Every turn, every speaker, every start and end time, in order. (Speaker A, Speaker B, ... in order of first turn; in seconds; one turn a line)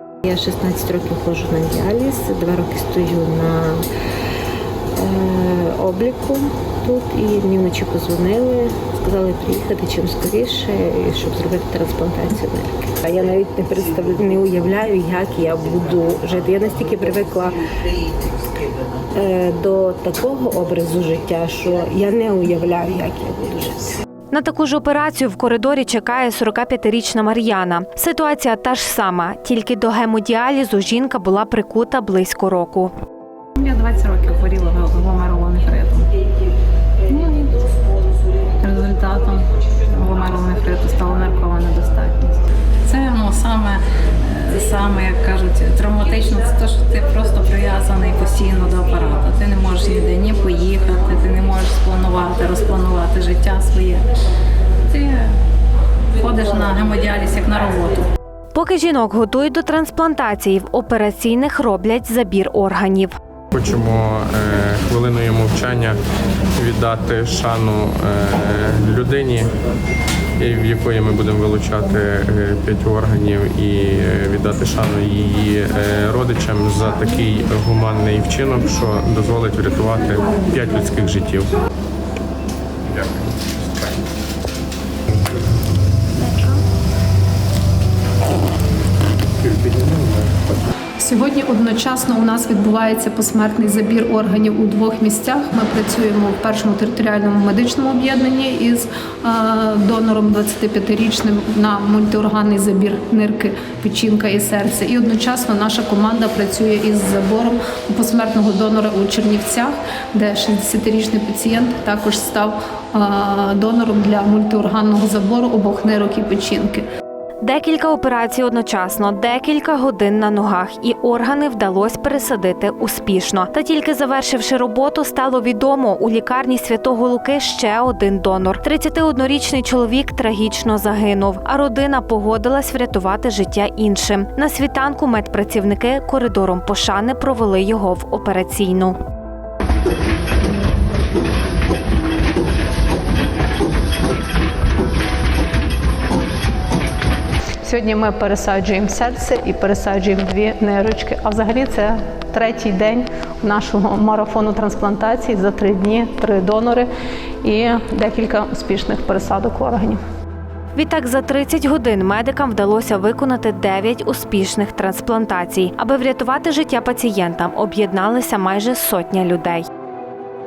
Speaker A: 0.2-3.9
Speaker A: 4.9-17.6
Speaker A: 19.1-24.0
Speaker B: 24.3-32.9
Speaker C: 33.6-36.1
Speaker C: 37.0-37.6
Speaker C: 38.6-54.1
Speaker C: 54.9-55.3
Speaker C: 56.2-58.1
Speaker B: 58.5-63.1
Speaker D: 63.5-66.0
Speaker D: 66.5-69.5
Speaker D: 70.4-81.5
Speaker D: 82.9-84.0
Speaker D: 89.4-90.5
Speaker E: 91.0-116.8
Speaker B: 117.4-139.0
Speaker E: 147.6-156.9
Speaker E: 157.4-160.0
Speaker B: 160.7-169.7